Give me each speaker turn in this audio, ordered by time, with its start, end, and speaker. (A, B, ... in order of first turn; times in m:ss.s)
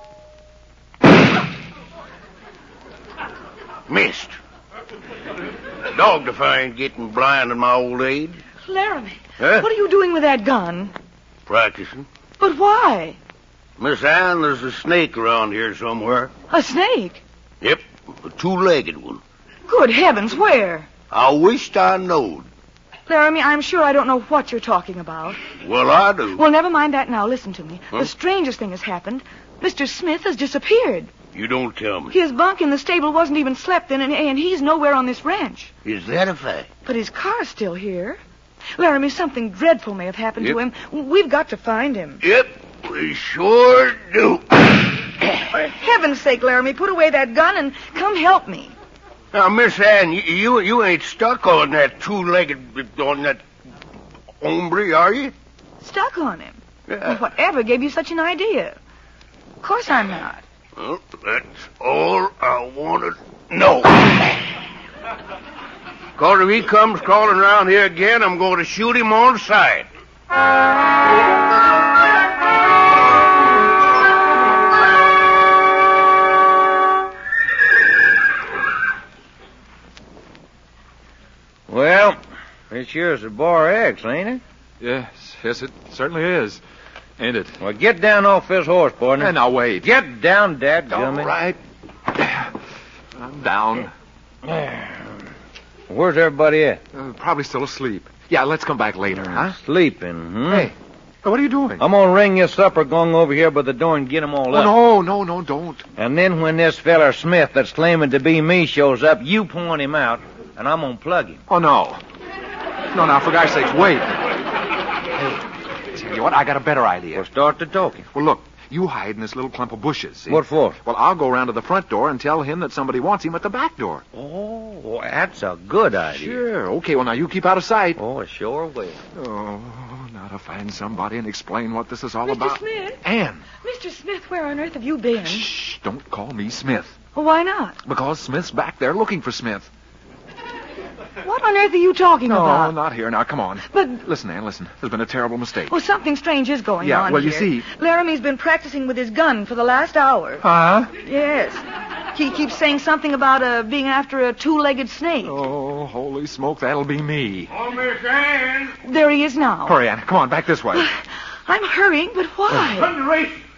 0:03.9-0:04.3 A
0:05.9-0:08.4 A
0:08.6-0:10.9 B
0:09.4-0:09.7 A
0:11.4-0:12.0 A
0:12.4-0:13.2 B
0:13.8-0:16.3 A
0:16.5-0:17.2 B
0:17.6-0:19.2 A
0:19.7-0:20.9 B
0:21.1-0:22.4 A
0:23.1-0:25.4 B
0:25.6-0:26.4 A
0:26.3-0:31.1 B
0:31.3-0:32.2 A
0:32.1-0:35.7 B
0:35.8-0:36.7 A
0:36.8-0:38.2 B
0:38.8-0:42.2 B
0:42.2-0:44.8 A
0:45.5-0:48.7 B
0:49.3-0:53.4 A
0:54.4-0:55.3 A
0:55.8-0:58.8 B
0:56.9-0:57.2 A
0:59.6-1:00.4 B
1:00.8-1:04.3 A
1:06.2-1:09.9 A
1:21.7-1:22.2 C
1:22.7-1:24.4 C
1:24.8-1:26.6 D
1:27.2-1:27.6 D
1:27.6-1:31.4 C
1:29.2-1:29.9 D
1:30.9-1:31.4 D
1:30.9-1:31.5 A
1:32.1-1:32.5 D
1:33.1-1:33.9 D
1:34.4-1:35.2 C
1:35.9-1:36.8 C
1:36.9-1:39.6 D
1:39.1-1:40.7 C
1:40.5-1:41.8 D
1:41.8-1:44.8 C
1:44.5-1:45.9 D
1:46.0-1:51.4 C
1:51.5-1:52.0 D
1:52.9-1:54.1 D
1:55.2-1:57.2 D
1:57.2-1:58.1 C
1:58.1-2:04.0 D
2:00.3-2:00.8 C
2:04.1-2:06.4 C
2:06.1-2:08.0 D
2:08.0-2:09.0 C
2:09.1-2:13.4 D
2:12.2-2:13.0 B
2:13.6-2:15.5 B
2:15.2-2:17.0 D
2:17.1-2:17.8 B
2:17.8-2:19.7 D
2:21.2-2:22.8 B
2:22.2-2:25.7 D
2:23.7-2:24.0 B
2:25.7-2:30.4 B
2:26.8-2:27.6 D
2:30.4-2:30.9 D
2:31.0-2:35.4 B
2:35.2-2:37.5 D
2:37.5-2:38.7 A
2:38.8-2:39.8 B
2:39.6-2:40.9 D
2:40.7-2:42.9 B
2:42.7-2:43.4 A